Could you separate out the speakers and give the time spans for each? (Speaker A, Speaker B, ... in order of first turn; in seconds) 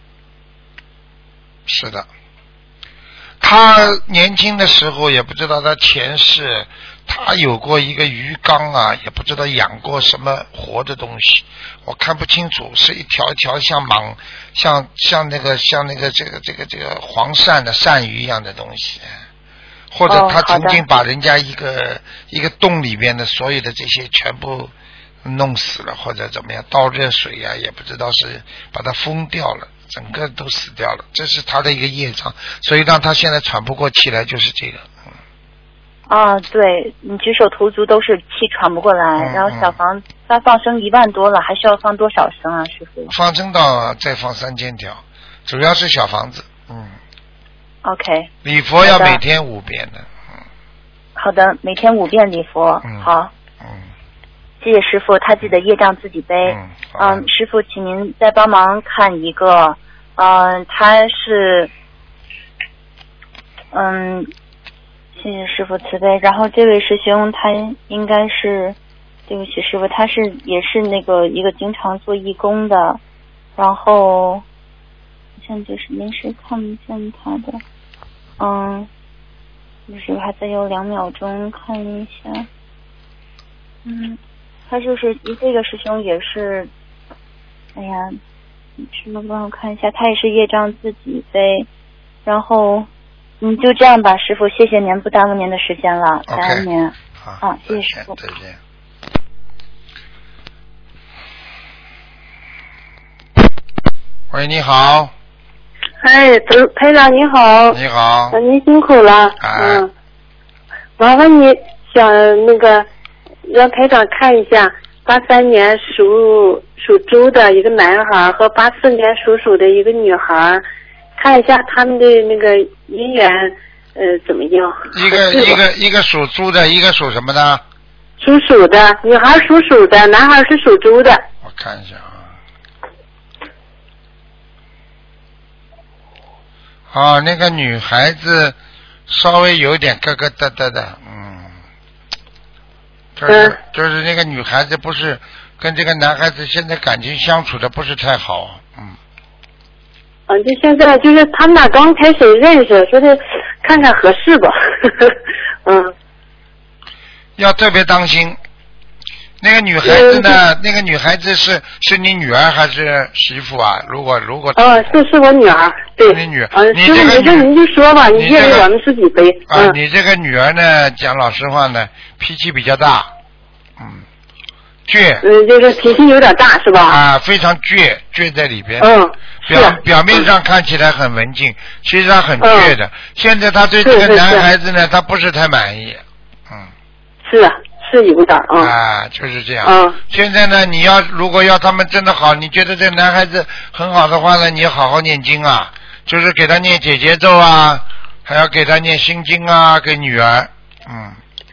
Speaker A: 1.7-2.1, 3.4-19.1, 19.9-24.7, 25.2-34.9, 39.2-39.8, 43.1-47.0, 48.4-50.1, 56.4-57.2, 96.3-96.7, 97.2-98.6, 104.3-105.1, 107.7-108.4, 109.4-109.8, 124.9-127.6, 131.4-132.3, 136.9-138.6, 139.1-141.6, 143.2-148.9, 157.4-158.4, 159.4-165.0, 166.1-167.5, 168.1-168.7, 169.5-173.1, 174.9-175.2, 176.8-178.9, 179.4-186.7, 188.6-201.2
Speaker B: 20.1-20.8, 106.0-107.8, 108.3-109.9, 111.0-112.8, 113.5-120.6, 121.2-125.6, 128.2-131.2, 143.3-143.6, 150.3-155.9, 159.8-160.4, 164.6-169.7, 175.2-177.0, 178.8-180.2, 182.4-182.7, 183.8-184.5, 187.2-188.7, 189.6-190.0
Speaker C: 36.1-43.1, 47.8-48.3, 48.8-49.2, 51.1-53.3, 54.6-61.7, 63.7-64.3, 65.2-68.8, 69.3-73.0, 73.6-74.4, 75.4-77.6, 78.4-78.9, 79.9-82.5, 83.8-86.7, 87.8-88.2, 88.8-91.7, 92.2-92.9, 93.4-98.1